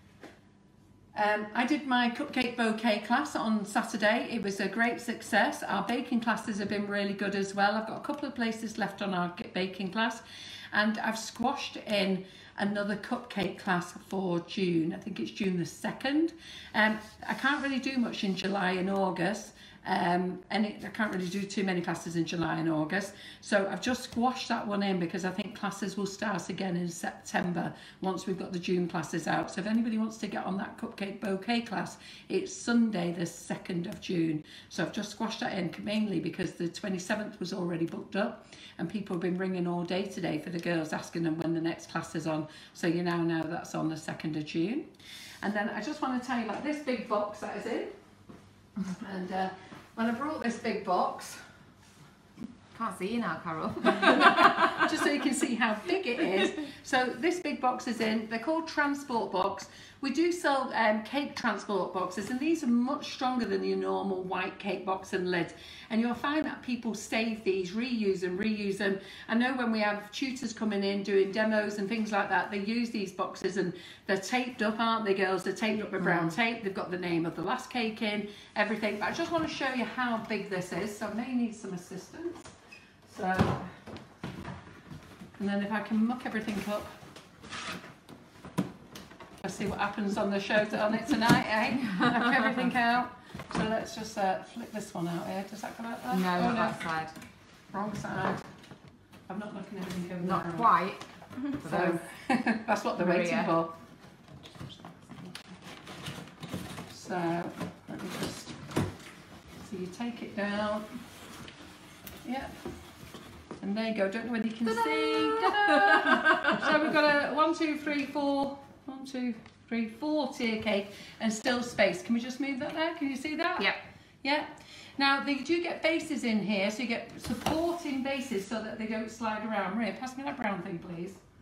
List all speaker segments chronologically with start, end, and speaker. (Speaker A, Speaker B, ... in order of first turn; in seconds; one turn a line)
Speaker A: 1.1-44.9
Speaker A: 45.4-47.9
Speaker A: 48.9-51.5
Speaker B: 52.7-55.0
Speaker A: 53.9-82.5
Speaker B: 76.0-76.3
Speaker A: 83.0-83.8
Speaker A: 85.4-87.0
Speaker A: 89.4-96.8
Speaker B: 96.1-97.1
Speaker A: 97.7-98.5
Speaker A: 99.3-100.7
Speaker B: 100.2-101.0
Speaker B: 101.6-102.0
Speaker A: 101.6-103.7
Speaker B: 103.0-103.5
Speaker B: 105.0-105.3
Speaker A: 106.9-108.6
Speaker A: 109.6-110.9
Speaker A: 112.2-112.5
Speaker A: 113.6-123.7
Speaker B: 115.4-116.6
Speaker A: 124.2-131.2